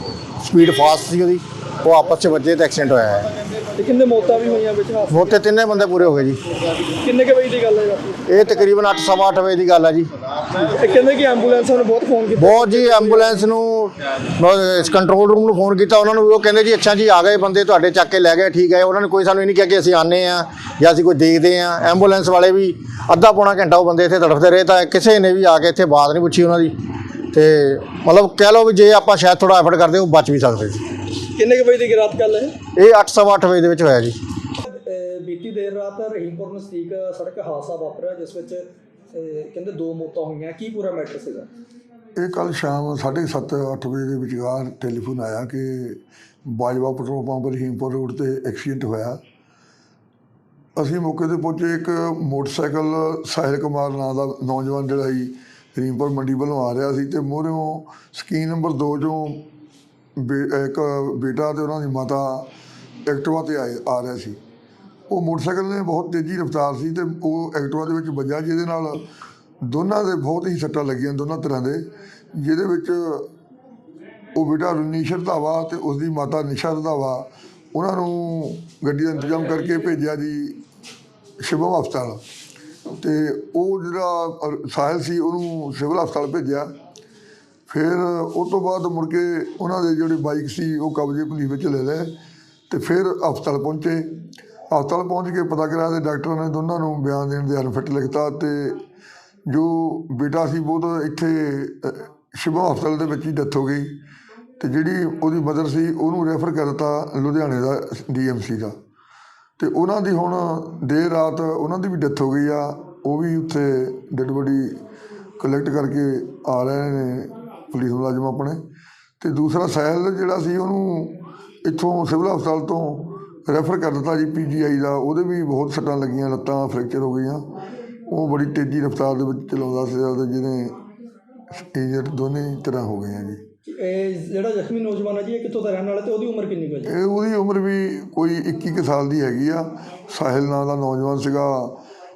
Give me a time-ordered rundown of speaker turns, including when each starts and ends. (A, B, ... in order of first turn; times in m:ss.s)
0:00.4-0:03.3 A
0:03.8-0:05.4 B
0:05.1-0:06.4 A
0:07.0-0:08.2 B
0:08.3-0:10.5 A
0:10.6-0:13.3 B
0:12.4-0:26.7 A
0:27.3-0:30.8 A
0:31.3-0:32.6 B
0:32.8-0:34.2 A
0:34.6-0:41.5 B
0:42.2-0:49.2 C
0:50.8-0:59.5 C
1:00.2-1:02.5 C
1:03.0-1:04.4 C
1:05.1-1:09.0 C
1:09.6-1:13.3 C
1:14.3-1:20.6 C
1:21.4-1:22.2 C
1:23.0-1:26.7 C
1:27.7-1:32.2 C
1:32.7-1:34.1 C
1:34.7-1:38.8 C
1:39.5-1:44.0 C
1:44.6-1:48.7 C
1:49.6-1:54.8 C
1:55.4-1:58.6 C
1:59.2-2:07.4 C
2:08.1-2:10.8 C
2:11.5-2:13.4 C
2:13.6-2:16.9 B
2:16.8-2:21.8 C